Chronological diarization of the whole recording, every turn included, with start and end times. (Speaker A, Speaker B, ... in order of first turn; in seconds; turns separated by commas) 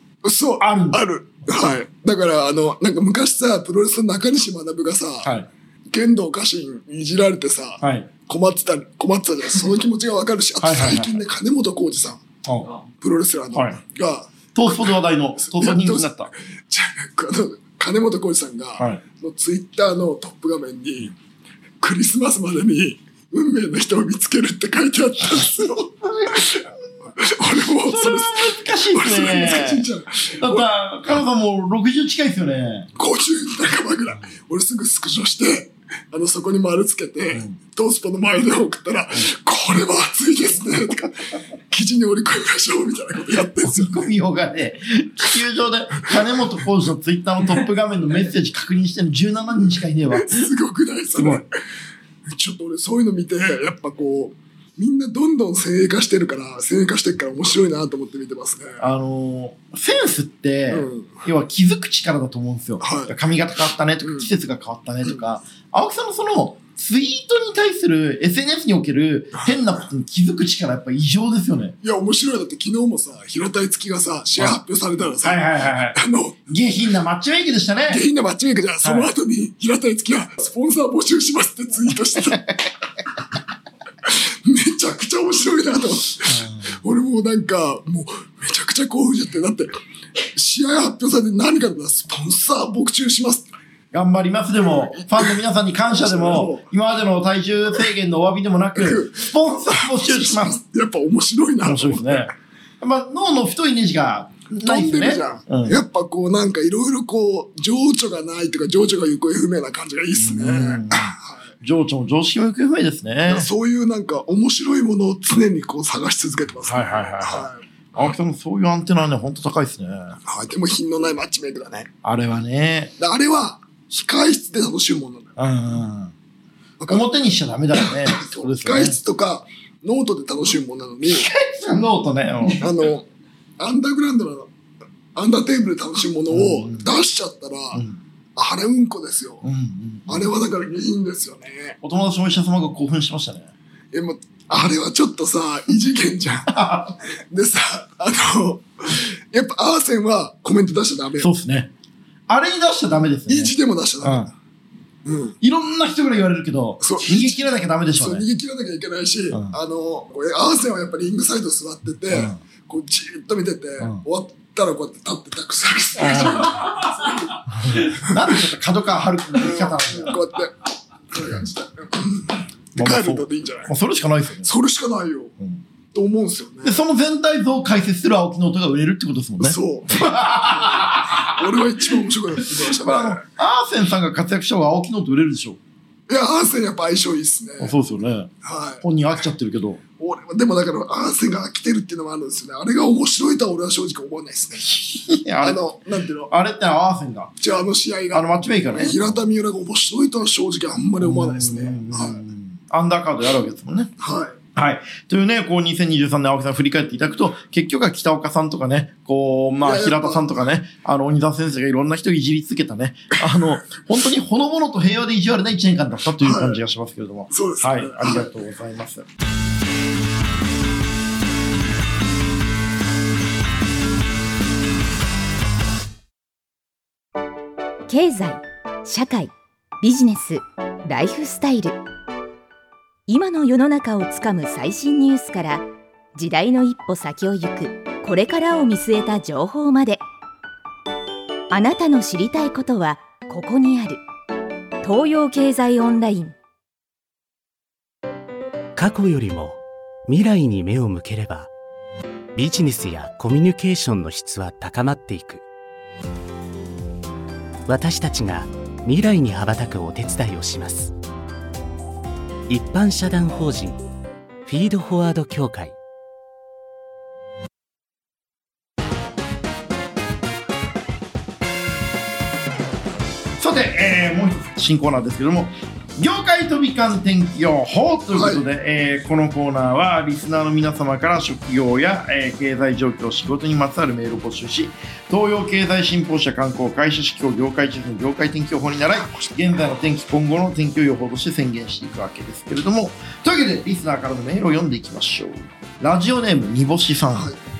Speaker A: 0.2-5.3, Speaker B: 0.6-1.0, Speaker A: 5.9-12.2, Speaker B: 7.8-8.1, Speaker B: 10.6-11.2, Speaker B: 12.4-12.7, Speaker A: 13.0-14.8, Speaker B: 13.5-13.8, Speaker B: 14.5-16.3, Speaker A: 15.4-21.1, Speaker B: 18.8-19.0, Speaker A: 21.8-30.6, Speaker B: 26.0-26.6, Speaker B: 27.8-29.9, Speaker B: 30.4-32.9, Speaker A: 33.0-44.1, Speaker B: 43.6-50.5, Speaker A: 50.1-51.5, Speaker B: 51.1-51.4, Speaker A: 52.3-58.8, Speaker B: 58.8-71.8, Speaker A: 60.7-61.2, Speaker A: 62.8-63.1, Speaker A: 64.0-64.3, Speaker A: 71.8-76.4, Speaker B: 75.2-78.0, Speaker A: 77.9-82.4, Speaker B: 78.8-79.1, Speaker A: 84.0-89.7, Speaker B: 86.3-86.8, Speaker A: 90.3-93.5, Speaker B: 93.9-100.6, Speaker A: 94.7-95.4, Speaker A: 95.9-96.7, Speaker A: 98.7-102.3, Speaker B: 101.6-105.8, Speaker A: 104.6-111.5, Speaker B: 110.2-113.5, Speaker A: 113.3-117.6, Speaker B: 116.7-120.2, Speaker A: 120.2-121.9, Speaker B: 122.0-122.9, Speaker A: 123.0-125.4, Speaker B: 125.4-126.1, Speaker A: 126.8-127.0, Speaker B: 126.9-129.0, Speaker A: 127.8-131.3, Speaker B: 131.0-132.7, Speaker A: 132.6-133.1, Speaker A: 133.6-134.5, Speaker A: 135.1-137.8, Speaker B: 136.3-136.9, Speaker B: 137.7-138.0, Speaker A: 138.3-139.4, Speaker B: 139.4-140.3, Speaker A: 140.1-141.8, Speaker B: 141.8-143.5, Speaker A: 143.9-146.6, Speaker B: 146.5-147.0, Speaker A: 147.1-151.3, Speaker B: 151.2-151.7, Speaker B: 152.3-154.3, Speaker A: 153.3-154.3, Speaker A: 155.0-155.4, Speaker B: 155.4-158.2, Speaker A: 156.8-168.1, Speaker B: 162.1-162.4, Speaker B: 166.0-166.7, Speaker B: 167.5-170.2, Speaker A: 169.3-173.7, Speaker B: 172.7-174.5, Speaker A: 174.4-175.3, Speaker A: 175.9-176.8, Speaker B: 176.6-181.3, Speaker A: 179.4-183.2, Speaker B: 182.6-185.6, Speaker A: 186.1-187.8, Speaker B: 187.6-189.8, Speaker A: 188.4-188.8, Speaker A: 190.0-194.7, Speaker B: 194.7-195.6, Speaker A: 195.4-196.3, Speaker B: 196.3-197.3, Speaker A: 197.4-202.2, Speaker B: 198.1-199.2, Speaker B: 201.0-203.9, Speaker A: 204.0-204.4, Speaker B: 204.6-219.1, Speaker A: 209.6-210.5, Speaker A: 216.2-216.6, Speaker A: 217.3-218.3, Speaker C: 227.9-231.8, Speaker C: 233.1-240.0, Speaker C: 241.5-244.0, Speaker C: 244.8-246.3, Speaker D: 248.8-251.5, Speaker D: 252.3-255.4, Speaker D: 257.6-260.9, Speaker D: 262.5-263.8, Speaker D: 264.4-265.8, Speaker B: 273.4-297.3, Speaker A: 278.1-278.4, Speaker A: 289.0-289.4, Speaker A: 297.1-297.4